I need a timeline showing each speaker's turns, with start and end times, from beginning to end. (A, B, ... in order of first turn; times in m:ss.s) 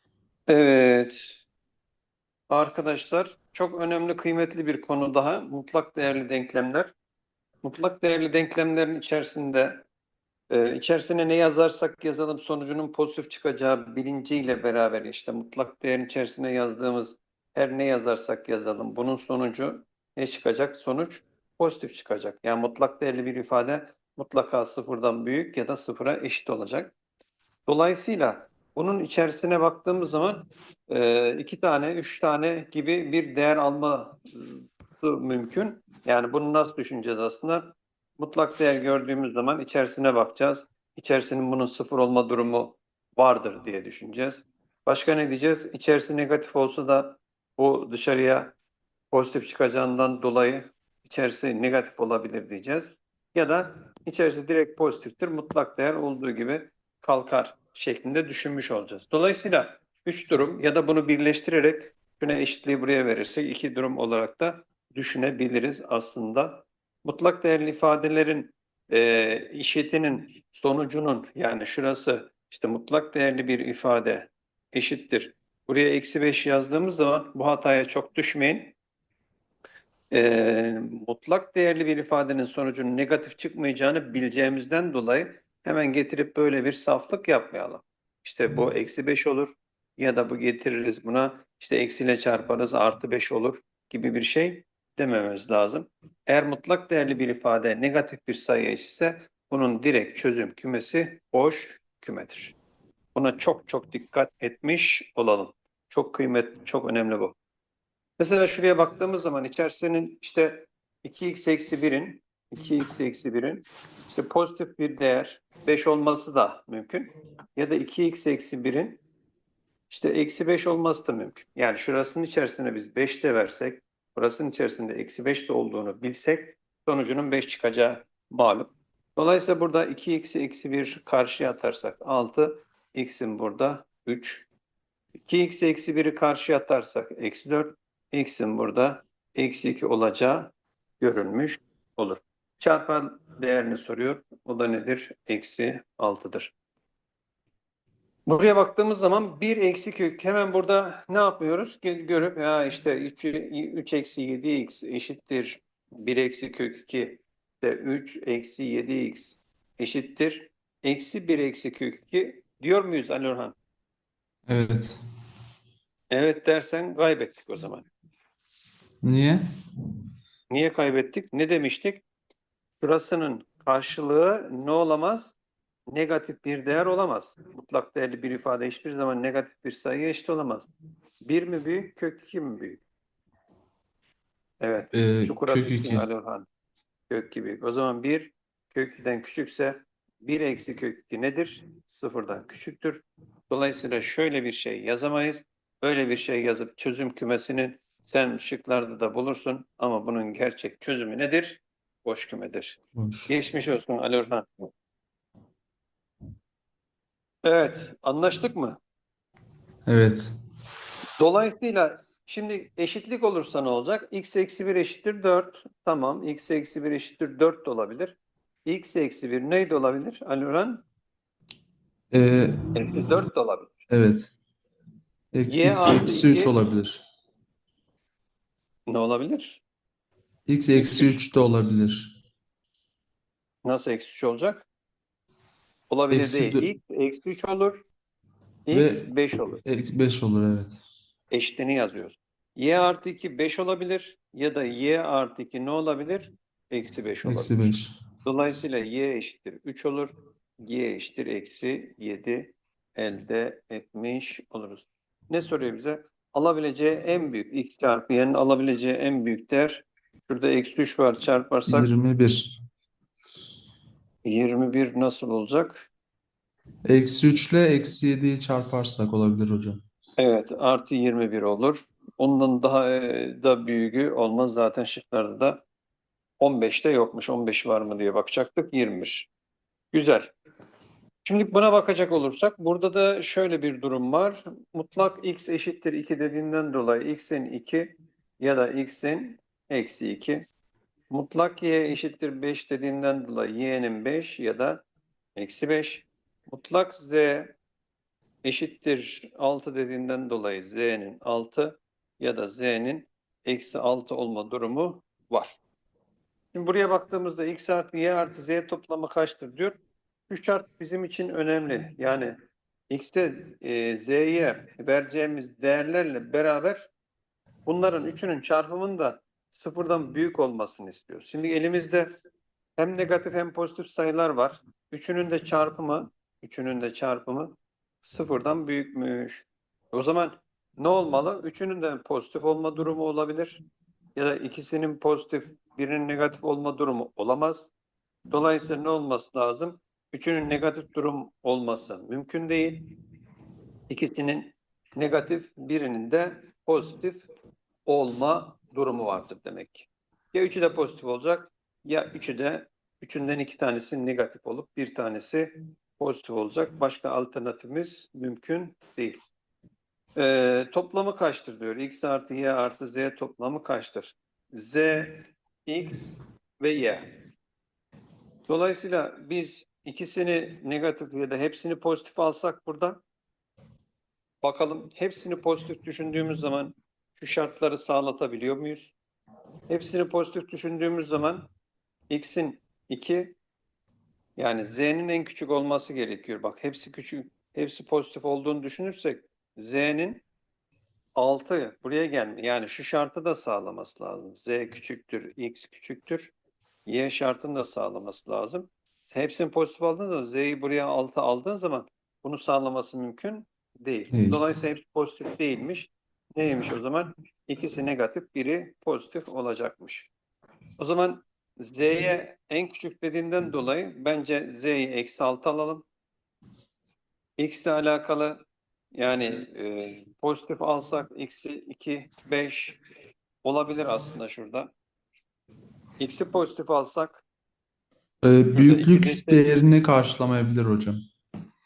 0:00.5-0:01.4 A
0:02.5-0:06.9 A
0:07.6-0:09.8 A
0:10.5-0:26.9 A
0:27.7-0:48.5 A
0:49.1-1:18.8 A
1:20.1-1:42.6 A
1:43.1-1:47.4 A
1:48.2-1:59.0 A
1:59.9-2:14.5 A
2:15.2-2:26.5 A
2:28.3-2:43.5 A
2:44.5-2:45.0 B
2:46.1-2:47.8 A
2:49.0-2:49.4 B
2:50.5-2:52.0 A
2:52.8-2:55.3 A
2:55.9-3:00.7 A
3:01.2-3:02.8 A
3:04.6-3:06.5 A
3:04.9-3:06.0 B
3:07.1-3:24.6 A
3:23.0-3:23.3 B
3:27.4-3:28.8 A
3:29.8-3:30.3 B
3:31.2-3:40.8 A
3:42.1-3:42.6 B
3:42.7-3:43.7 A
3:43.9-3:44.3 B
3:45.3-3:47.0 B
3:45.5-3:46.6 A
3:48.9-3:49.6 A
3:50.5-3:52.1 B
3:50.7-3:51.2 A
3:53.6-3:54.7 A
3:55.9-3:57.8 A
3:56.1-3:56.7 B
3:58.7-3:59.6 A
3:58.7-3:59.1 B
3:59.6-4:00.8 B
4:01.3-4:21.9 A
4:07.2-4:08.0 B
4:21.7-4:22.6 B
4:24.2-4:25.9 A
4:26.9-4:29.8 B
4:30.2-4:35.6 A
4:36.4-4:39.3 A
4:39.9-4:40.3 A
4:41.2-4:50.5 A
4:51.1-4:54.8 A
4:55.4-4:57.6 A
4:58.4-5:05.6 A
5:06.5-5:09.8 A
5:10.3-5:12.3 A
5:12.9-5:16.9 A
5:17.6-5:22.2 A
5:22.8-5:33.6 A
5:34.2-5:37.7 A
5:38.3-5:42.8 A
5:43.9-5:47.3 A
5:47.9-5:59.2 A
6:00.2-6:07.0 A
6:08.5-6:13.0 A
6:14.4-6:18.9 A
6:19.7-6:21.5 A
6:22.1-6:23.4 A
6:24.4-6:30.2 A
6:31.2-6:36.3 A
6:36.8-6:50.1 A
6:44.1-6:44.4 B
6:50.8-6:55.8 A
6:57.4-7:02.8 A
7:03.4-7:04.7 A
7:06.0-7:07.2 A
7:08.2-7:11.0 B
7:08.5-7:09.7 A